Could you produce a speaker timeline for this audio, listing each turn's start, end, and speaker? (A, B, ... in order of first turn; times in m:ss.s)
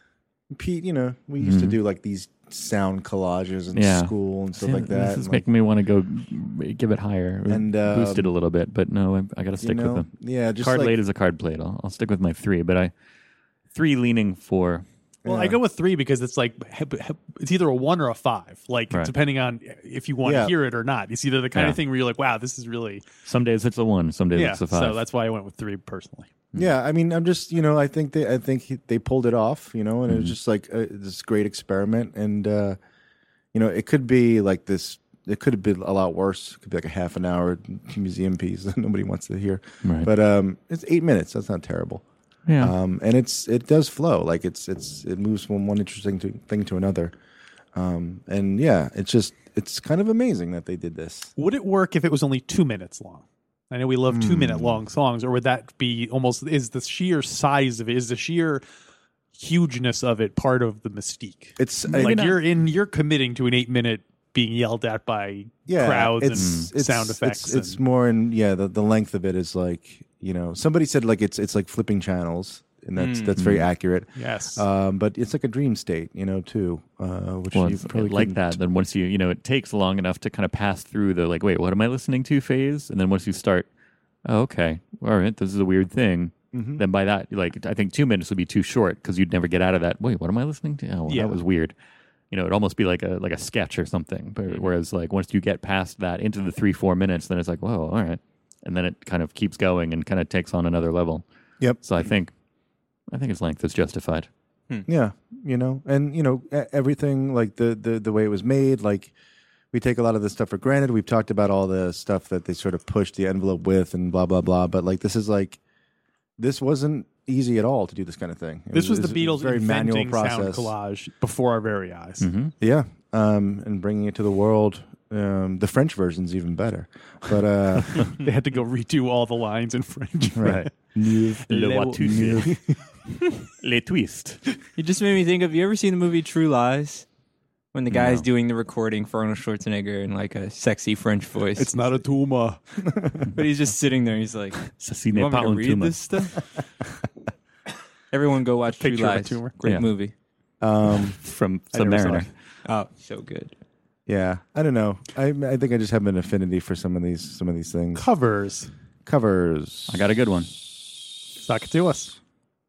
0:00.5-0:05.4 A
0:01.4-0:01.8 B
0:03.7-0:10.1 B
0:07.5-0:08.3 A
0:09.6-0:11.0 A
0:10.6-0:12.9 B
0:13.7-0:14.8 B
0:15.2-0:15.6 A
0:15.2-0:23.1 C
0:20.2-0:20.5 A
0:21.5-0:21.8 B
0:23.2-0:25.0 B
0:24.3-0:26.3 C
0:26.5-0:32.8 A
0:30.1-0:30.3 B
0:33.5-0:42.0 A
0:42.5-0:42.7 B
0:42.6-0:47.1 A
0:47.7-0:51.3 A
0:51.4-0:58.6 C
0:54.1-0:54.8 A
0:59.3-1:07.8 C
1:01.6-1:02.2 A
1:01.8-1:02.4 B
1:05.7-1:18.6 A
1:06.3-1:06.7 B
1:13.0-1:13.4 D
1:13.4-1:13.6 B
1:14.2-1:14.6 C
1:17.5-1:23.7 B
1:24.2-1:31.7 B
1:26.5-1:26.8 A
1:31.1-1:31.4 C
1:32.3-1:41.2 B
1:41.6-1:42.1 A
1:41.8-1:42.3 B
1:43.1-1:44.3 B
1:44.8-1:49.1 A
1:49.7-1:55.6 A
1:56.4-2:00.7 A
1:58.7-2:02.3 C
2:02.2-2:02.5 B
2:02.6-2:08.2 A
2:08.2-2:10.7 C
2:10.4-2:11.4 A
2:10.4-2:10.7 B
2:11.4-2:12.6 B
2:11.5-2:12.6 C
2:13.6-2:14.4 B
2:14.8-2:17.0 D
2:17.7-2:22.0 D
2:17.9-2:18.2 B
2:21.6-2:22.9 C
2:23.3-2:26.4 D
2:24.6-2:26.0 B
2:28.1-2:30.1 D
2:28.8-2:29.5 C
2:30.6-2:31.2 A
2:30.9-2:32.3 B
2:31.8-2:32.2 A
2:31.8-2:32.2 C
2:32.6-2:33.5 D
2:34.1-2:38.0 A
2:37.9-2:38.7 C
2:39.0-2:40.0 A
2:39.9-2:40.5 B
2:41.4-2:42.2 C